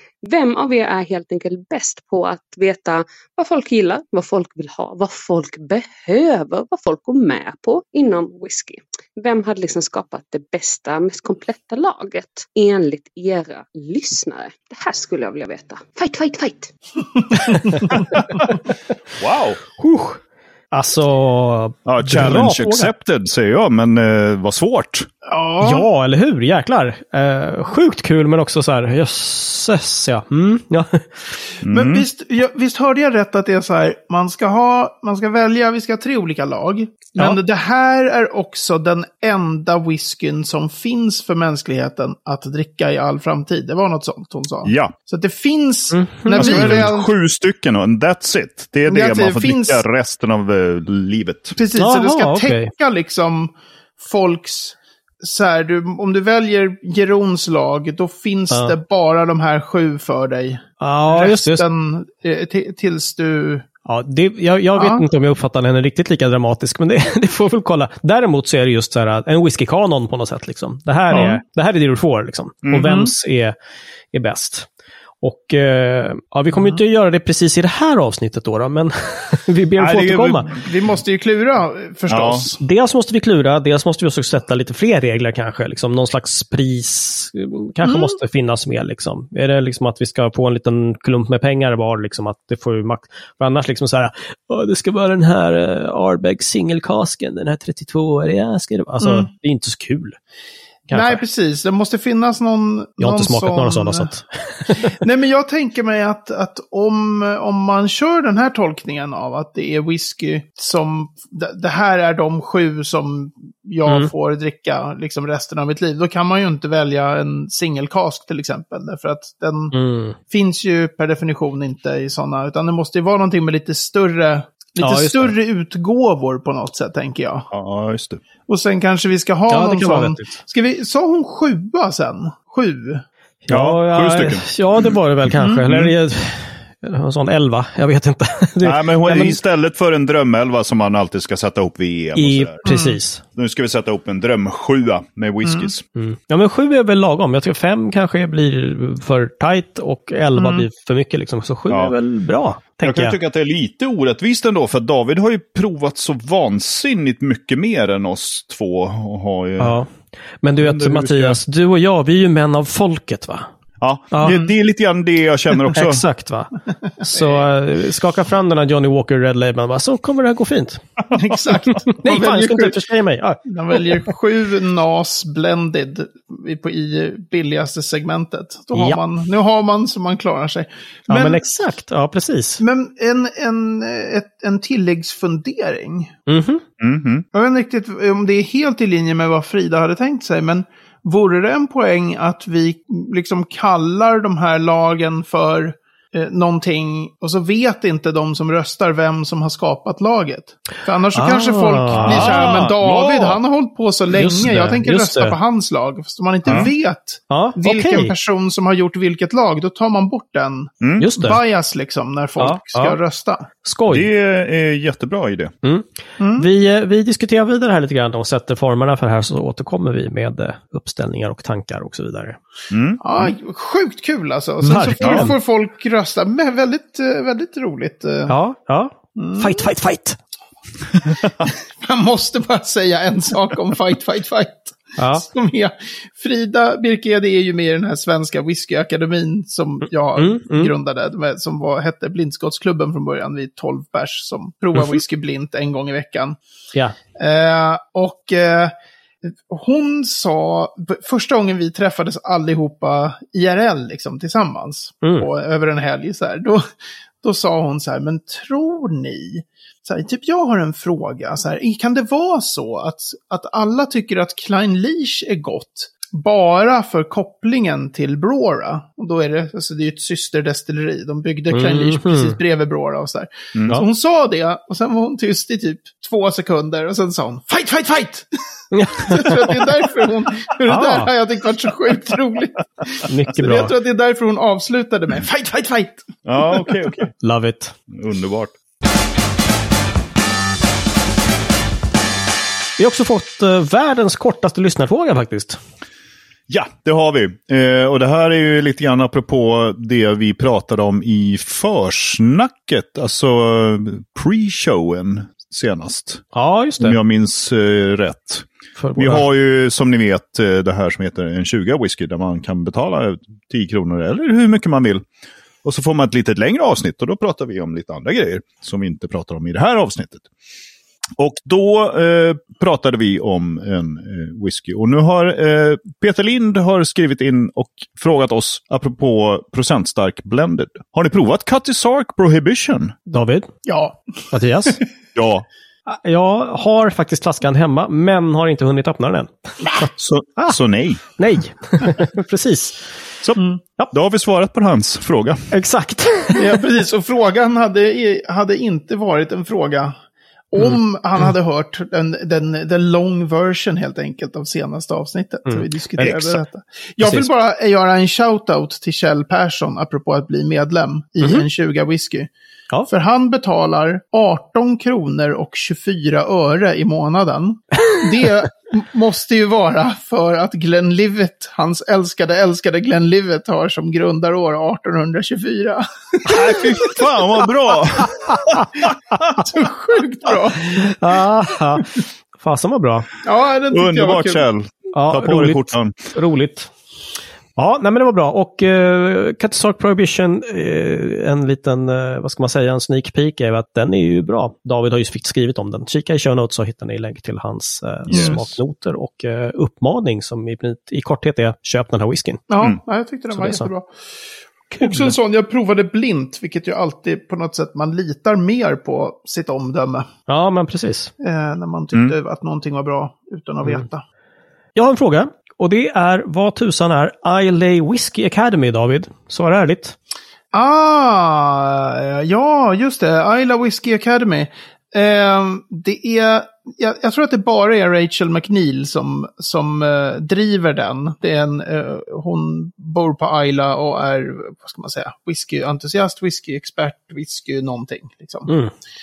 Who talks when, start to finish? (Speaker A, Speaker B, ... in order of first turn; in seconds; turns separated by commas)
Speaker A: 0.2-16.7, Speaker B: 17.5-18.2, Speaker C: 17.8-18.1, Speaker D: 19.2-19.6, Speaker B: 19.8-20.2, Speaker B: 20.7-22.9, Speaker D: 21.8-25.1, Speaker C: 25.2-25.9, Speaker B: 25.6-31.1, Speaker D: 31.6-32.0, Speaker C: 31.7-47.1, Speaker D: 44.6-44.9, Speaker B: 45.9-46.9, Speaker D: 46.3-51.6, Speaker C: 48.9-49.8, Speaker C: 51.5-63.6, Speaker B: 51.7-52.7, Speaker B: 58.5-58.8, Speaker B: 60.8-61.6, Speaker B: 63.9-73.5, Speaker C: 64.8-65.0, Speaker C: 71.1-71.4, Speaker D: 72.6-72.9, Speaker C: 72.8-73.1, Speaker B: 74.1-74.7, Speaker B: 75.2-80.5, Speaker D: 79.8-80.6, Speaker C: 80.5-82.6, Speaker D: 82.1-82.5, Speaker B: 82.6-100.2, Speaker C: 87.8-88.1, Speaker C: 99.0-99.3, Speaker B: 100.9-101.2, Speaker C: 100.9-104.1, Speaker B: 103.0-105.0, Speaker C: 104.9-127.5, Speaker B: 113.8-114.1, Speaker B: 119.7-120.2, Speaker B: 124.8-125.3, Speaker D: 127.5-128.2, Speaker C: 128.5-133.0, Speaker B: 129.5-130.4, Speaker B: 133.4-139.4, Speaker D: 133.5-135.0, Speaker D: 135.6-135.9, Speaker D: 138.6-142.7, Speaker B: 142.2-143.2, Speaker C: 142.6-143.0, Speaker D: 143.3-145.8, Speaker C: 145.4-145.7, Speaker B: 145.9-153.2, Speaker C: 150.3-150.7, Speaker D: 151.7-151.9, Speaker D: 152.8-159.8, Speaker B: 159.6-159.9, Speaker B: 160.4-163.5, Speaker D: 160.6-161.4, Speaker D: 163.8-166.0, Speaker B: 164.1-164.4, Speaker C: 164.2-164.5, Speaker B: 165.7-170.8, Speaker C: 167.0-167.4, Speaker C: 171.1-172.8, Speaker B: 172.0-174.1, Speaker C: 173.4-181.4, Speaker B: 178.7-179.0, Speaker B: 181.1-182.6, Speaker C: 182.6-186.2, Speaker B: 186.3-186.6, Speaker D: 186.8-187.2, Speaker C: 187.3-213.5, Speaker B: 201.1-202.4, Speaker D: 201.9-203.4, Speaker B: 204.1-205.4, Speaker D: 206.4-206.7, Speaker B: 207.3-208.1, Speaker D: 210.8-211.1, Speaker B: 211.0-211.4, Speaker B: 212.4-213.0, Speaker B: 213.6-214.1, Speaker D: 213.9-215.5, Speaker B: 215.6-222.4, Speaker C: 216.2-216.5, Speaker D: 222.7-223.3, Speaker C: 223.0-228.3, Speaker B: 224.6-225.3, Speaker D: 225.0-225.3, Speaker B: 228.3-230.2, Speaker C: 229.2-229.7, Speaker C: 231.4-246.4, Speaker B: 235.0-235.2, Speaker B: 240.2-240.7, Speaker C: 247.2-248.7, Speaker C: 249.3-256.7, Speaker B: 255.0-255.3, Speaker C: 257.2-278.3, Speaker B: 271.5-272.4, Speaker D: 273.5-273.8, Speaker B: 278.7-279.7, Speaker C: 279.0-287.0, Speaker B: 280.6-281.1, Speaker B: 283.1-283.7, Speaker D: 286.2-287.1, Speaker B: 287.2-287.7, Speaker D: 287.9-288.5, Speaker B: 292.8-295.6, Speaker D: 296.5-306.2, Speaker B: 306.3-307.0, Speaker D: 306.8-315.0, Speaker B: 308.8-309.2, Speaker D: 315.6-320.3, Speaker D: 321.2-332.9, Speaker B: 333.1-333.5, Speaker C: 333.6-334.0, Speaker B: 334.3-334.8, Speaker D: 335.1-335.4, Speaker B: 335.9-340.6, Speaker D: 340.0-341.0, Speaker B: 341.2-342.9, Speaker D: 343.2-345.4, Speaker B: 345.5-346.6, Speaker C: 346.3-349.9, Speaker C: 350.5-362.3, Speaker B: 355.5-356.4, Speaker B: 357.0-357.3, Speaker B: 361.2-361.5, Speaker C: 362.9-376.9, Speaker D: 376.2-378.9, Speaker C: 379.3-380.9, Speaker B: 380.6-383.1, Speaker C: 383.2-384.4, Speaker D: 383.7-385.9, Speaker B: 384.9-386.7, Speaker B: 387.6-402.4, Speaker D: 398.1-398.5, Speaker C: 398.1-398.4, Speaker C: 402.5-403.9, Speaker B: 403.3-403.7, Speaker B: 404.7-405.1, Speaker C: 404.8-410.1, Speaker B: 410.3-411.1, Speaker C: 411.2-414.0, Speaker B: 414.7-419.9, Speaker C: 420.5-438.5, Speaker B: 438.5-438.7